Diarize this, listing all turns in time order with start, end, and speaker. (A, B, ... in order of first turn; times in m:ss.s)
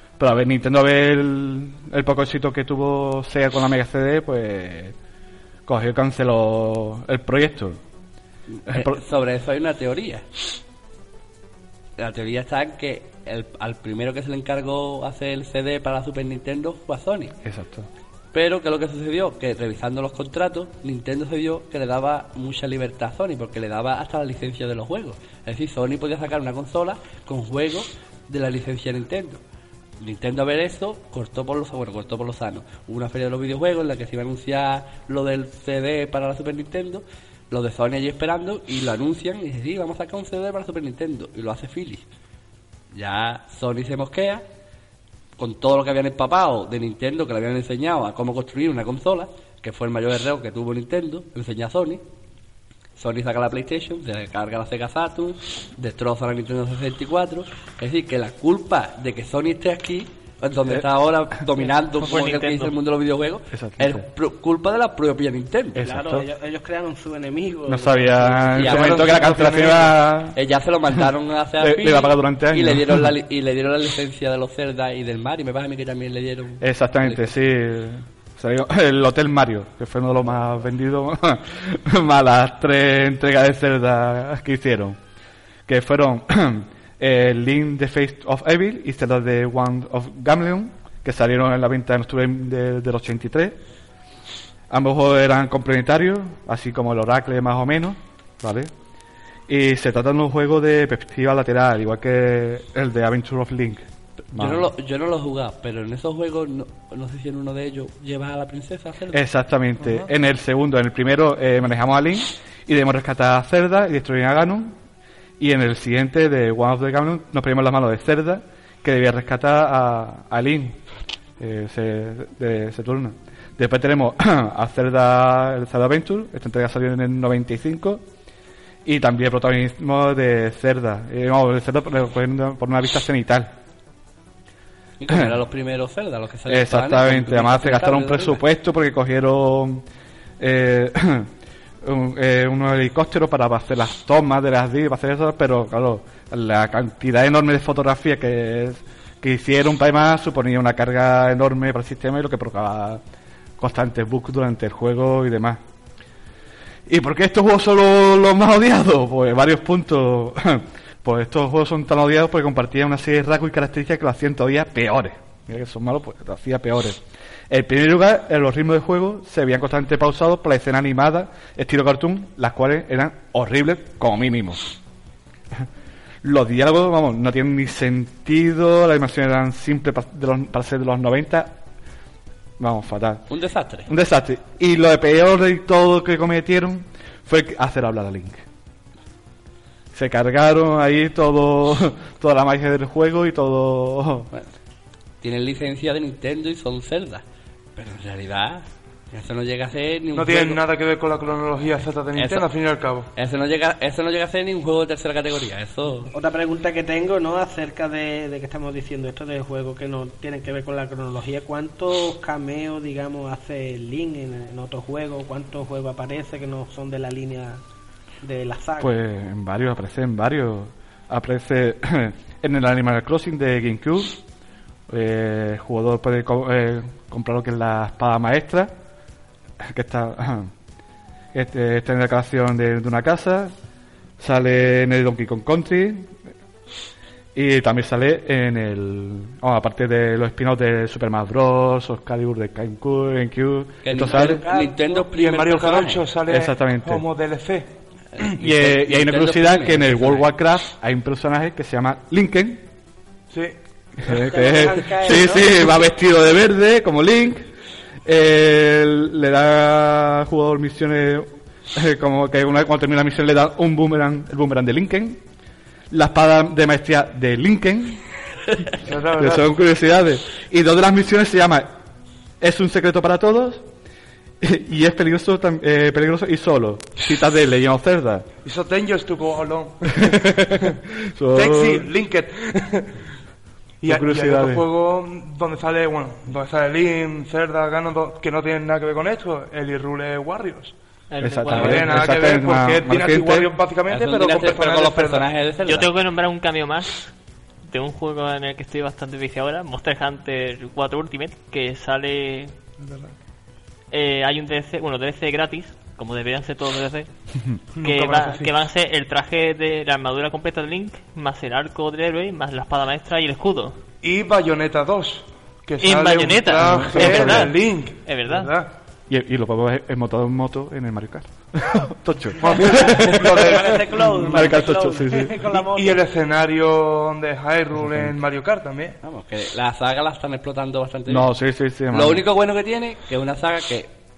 0:00.2-0:04.9 A
0:05.7-0:07.8 A
0:08.5-0:10.2 B
0:08.7-0:09.0 A
0:12.0-0:17.3 B
0:17.4-0:17.9 A
0:18.3-0:29.4 B
0:30.0-0:42.0 B
0:42.9-0:44.4 B
0:45.4-0:52.0 B
0:53.0-1:05.8 B
1:01.9-1:02.7 C
1:03.5-1:04.0 A
1:05.8-1:06.2 A
1:05.8-1:09.8 D
1:07.7-1:10.4 A
1:08.5-1:17.3 B
1:11.6-1:13.1 A
1:16.6-1:25.0 A
1:25.7-1:33.6 A
1:34.7-1:38.7 A
1:39.5-1:44.7 A
1:44.3-1:49.2 B
1:49.1-1:54.7 A
1:49.8-1:50.1 E
1:55.4-2:00.8 A
2:01.4-2:08.0 A
2:08.8-2:13.5 A
2:15.0-2:18.4 B
2:16.5-2:19.8 A
2:20.4-2:21.3 A
2:21.8-2:33.0 A
2:33.6-2:35.6 A
2:36.8-2:54.6 A
2:56.2-3:01.6 A
3:02.6-3:03.2 A
3:03.3-3:03.9 B
3:03.9-3:08.4 A
3:09.9-3:14.3 A
3:15.2-3:17.2 B
3:17.8-3:20.6 B
3:20.1-3:23.1 E
3:22.1-3:22.5 B
3:23.1-3:26.1 B
3:26.1-3:37.6 D
3:38.2-3:38.9 D
3:38.8-3:44.2 A
3:44.9-3:48.7 A
3:49.6-3:50.5 A
3:51.3-3:53.5 A
3:54.2-3:56.2 A
3:57.3-4:04.4 A
4:03.8-4:06.1 B
4:04.0-4:05.1 D
4:05.1-4:07.7 E
4:06.3-4:07.0 A
4:08.2-4:10.3 B
4:08.4-4:12.6 A
4:13.3-4:14.3 E
4:14.0-4:17.5 A
4:14.2-4:15.8 D
4:18.0-4:25.2 A
4:25.9-4:28.0 A
4:28.8-4:29.6 E
4:29.2-4:31.7 A
4:32.4-4:33.6 A
4:34.4-4:38.3 A
4:38.4-4:40.8 E
4:40.0-4:41.9 A
4:41.3-4:43.0 E
4:43.8-4:50.7 E
4:43.8-4:44.6 A
4:51.1-4:52.0 C
4:51.2-4:53.5 A
4:51.5-4:52.0 B
4:51.5-4:55.3 E
4:53.9-4:55.9 B
4:55.6-4:57.1 C
4:57.6-5:02.5 C
5:02.8-5:03.1 E
5:03.9-5:07.1 C
5:07.7-5:08.5 E
5:07.8-5:13.8 C
5:14.0-5:18.7 E
5:15.8-5:18.5 C
5:16.8-5:17.5 A
5:19.1-5:25.5 A
5:22.4-5:24.6 E
5:23.1-5:26.0 D
5:25.5-5:29.0 E
5:29.0-5:31.3 B
5:31.1-5:32.2 A
5:31.9-5:33.9 B